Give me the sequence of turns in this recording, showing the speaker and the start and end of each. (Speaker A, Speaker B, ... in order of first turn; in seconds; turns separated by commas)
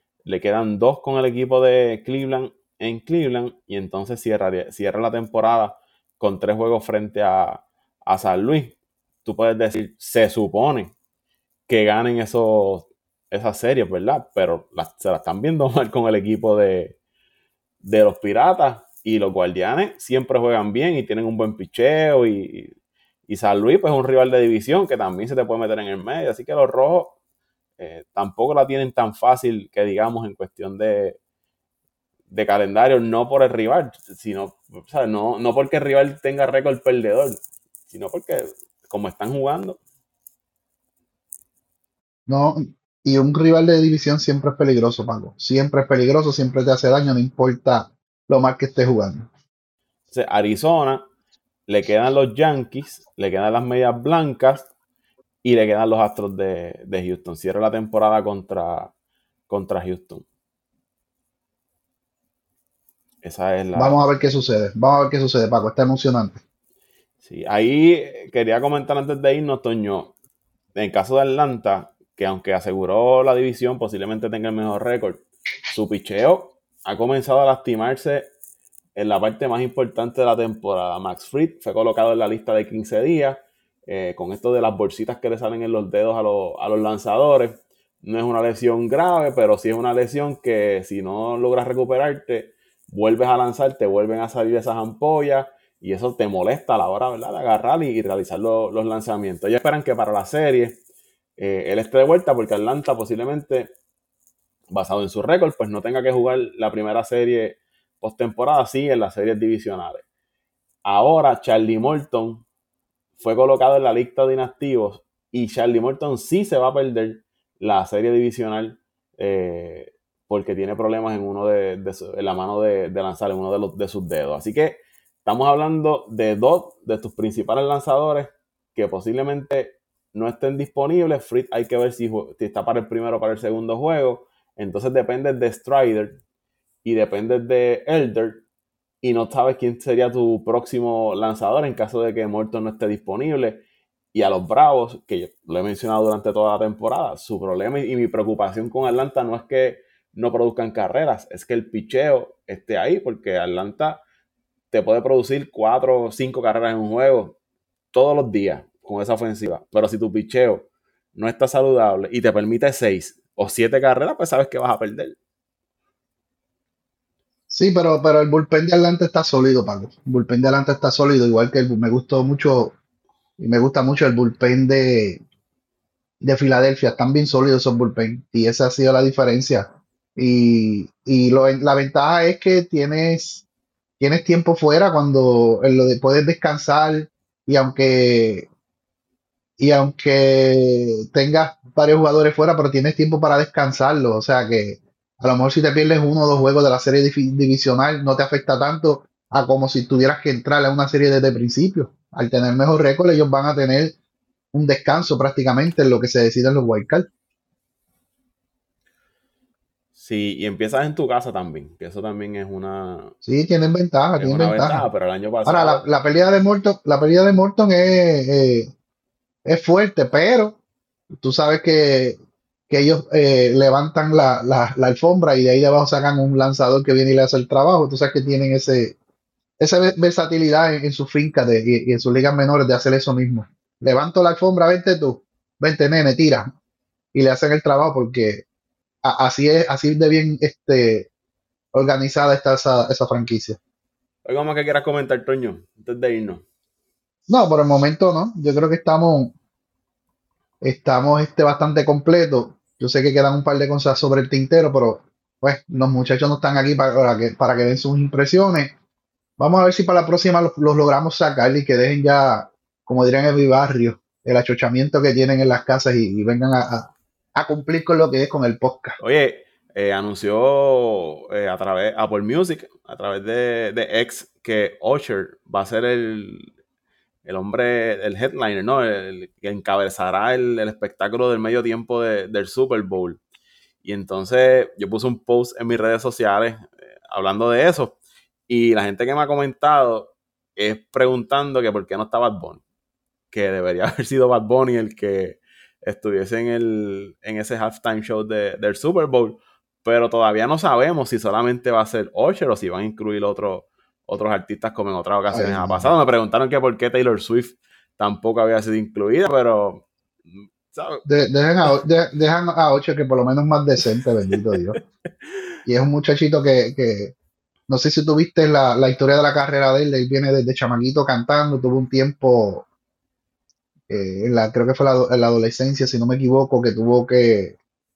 Speaker A: 0.2-10.9, Speaker A: 11.7-17.0, Speaker A: 17.8-22.7, Speaker A: 23.3-27.1, Speaker A: 27.8-31.2, Speaker A: 32.3-37.4, Speaker A: 37.9-39.8, Speaker B: 42.3-49.3, Speaker A: 50.1-51.1, Speaker A: 51.7-54.7, Speaker A: 55.4-58.9, Speaker A: 59.5-60.2, Speaker A: 63.2-64.0, Speaker B: 63.7-66.4, Speaker A: 67.2-70.1, Speaker A: 70.7-78.3, Speaker A: 78.9-100.8, Speaker A: 101.4-103.7, Speaker A: 104.7-110.0, Speaker A: 110.8-112.4, Speaker A: 113.2-136.2, Speaker A: 136.8-138.4, Speaker A: 139.0-154.0, Speaker A: 154.7-157.4, Speaker A: 157.9-165.2, Speaker B: 167.5-172.7, Speaker B: 173.4-175.2, Speaker B: 176.2-183.4, Speaker B: 184.0-188.5, Speaker B: 189.6-203.9, Speaker B: 204.5-207.1, Speaker A: 209.9-213.1, Speaker B: 213.2-214.9, Speaker A: 214.2-215.8, Speaker B: 215.4-218.7, Speaker B: 219.4-220.6, Speaker B: 221.1-229.0, Speaker B: 229.6-236.5, Speaker B: 237.1-238.4, Speaker B: 239.0-241.1, Speaker B: 241.7-243.6, Speaker A: 244.2-246.4, Speaker B: 247.3-249.3, Speaker B: 250.6-258.7, Speaker B: 259.4-269.0, Speaker A: 269.0-276.5, Speaker A: 277.2-283.2, Speaker A: 283.8-288.0, Speaker A: 288.5-292.6, Speaker A: 293.3-309.9, Speaker B: 305.3-305.9, Speaker A: 310.4-311.0, Speaker B: 311.1-314.8, Speaker A: 314.5-314.8, Speaker B: 315.6-317.1, Speaker B: 317.7-322.6, Speaker B: 323.9-327.6